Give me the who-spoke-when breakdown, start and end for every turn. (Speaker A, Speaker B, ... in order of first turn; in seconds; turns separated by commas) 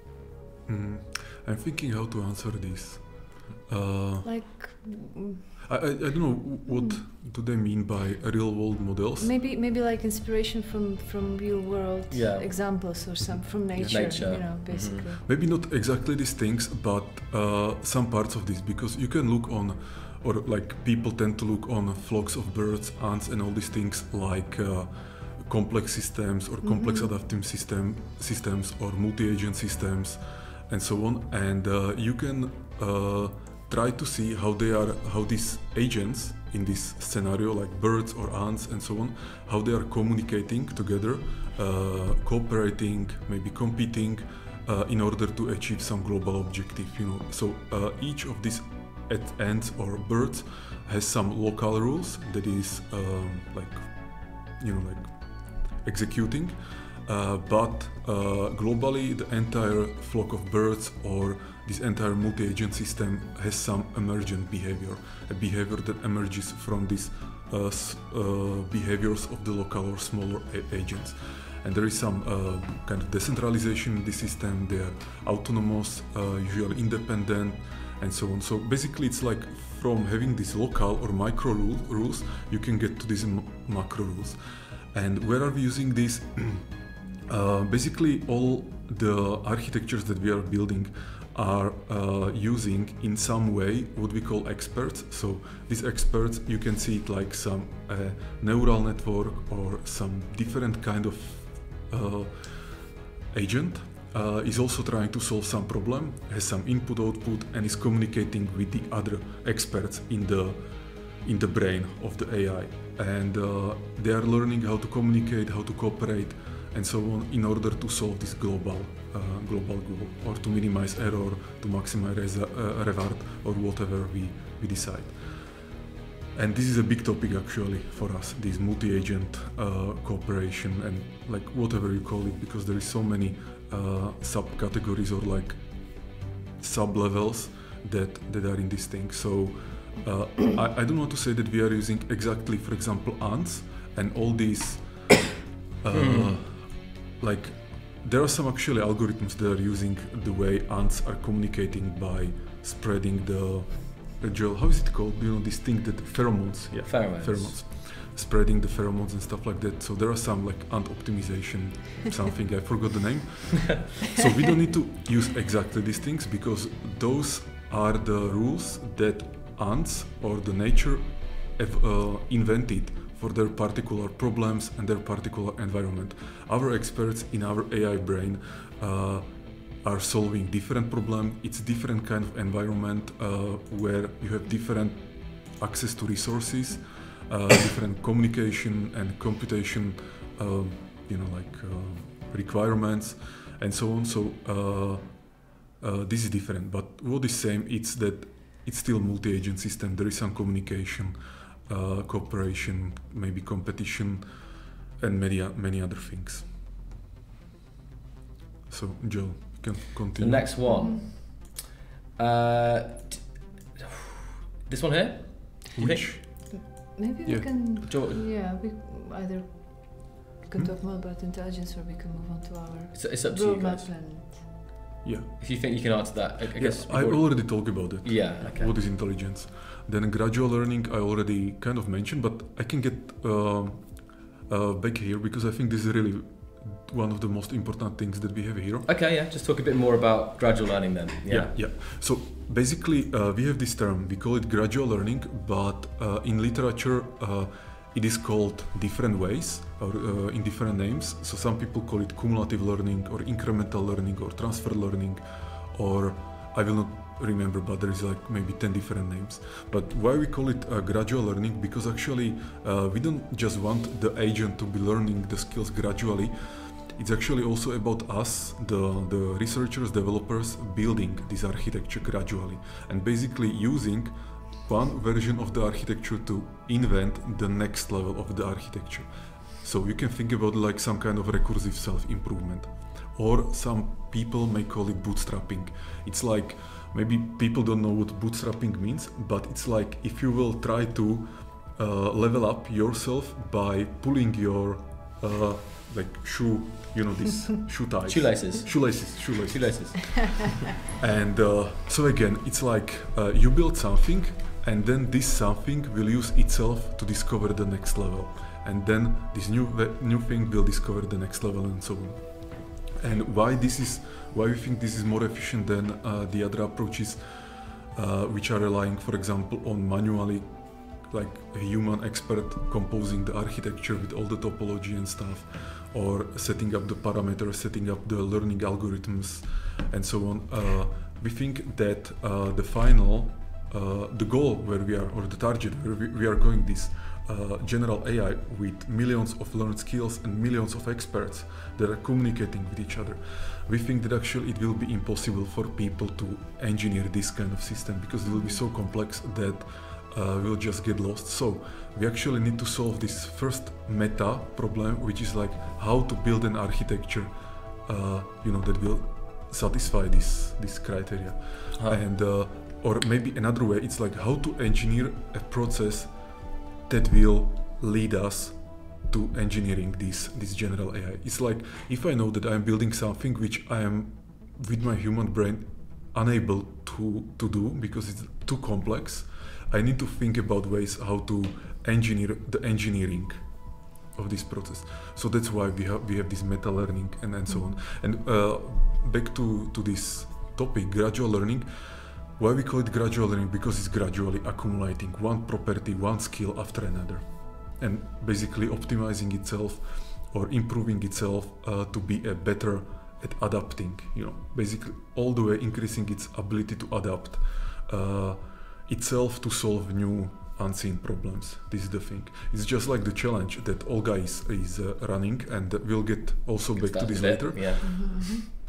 Speaker A: 0.7-4.4, Speaker B: 4.2-5.7, Speaker A: 5.6-9.3, Speaker B: 6.7-7.0, Speaker B: 9.2-15.2, Speaker C: 12.1-13.0, Speaker A: 13.3-84.4, Speaker C: 13.8-15.1, Speaker B: 26.6-27.1, Speaker A: 84.9-86.7, Speaker A: 87.3-125.7, Speaker A: 126.3-204.3, Speaker C: 145.9-146.4, Speaker C: 156.8-157.7, Speaker A: 205.0-206.5, Speaker A: 208.7-210.7, Speaker C: 210.2-211.5, Speaker B: 210.7-211.0, Speaker C: 212.2-216.1, Speaker A: 215.8-216.7, Speaker B: 216.5-224.5, Speaker A: 217.3-217.8, Speaker C: 217.9-218.2, Speaker C: 222.9-223.9, Speaker A: 225.0-225.4, Speaker C: 225.4-228.8, Speaker A: 226.6-238.9, Speaker C: 238.9-241.6, Speaker A: 241.3-418.0, Speaker C: 298.1-300.6, Speaker B: 348.3-348.6, Speaker B: 387.5-387.8, Speaker C: 416.8-418.3, Speaker B: 417.8-418.4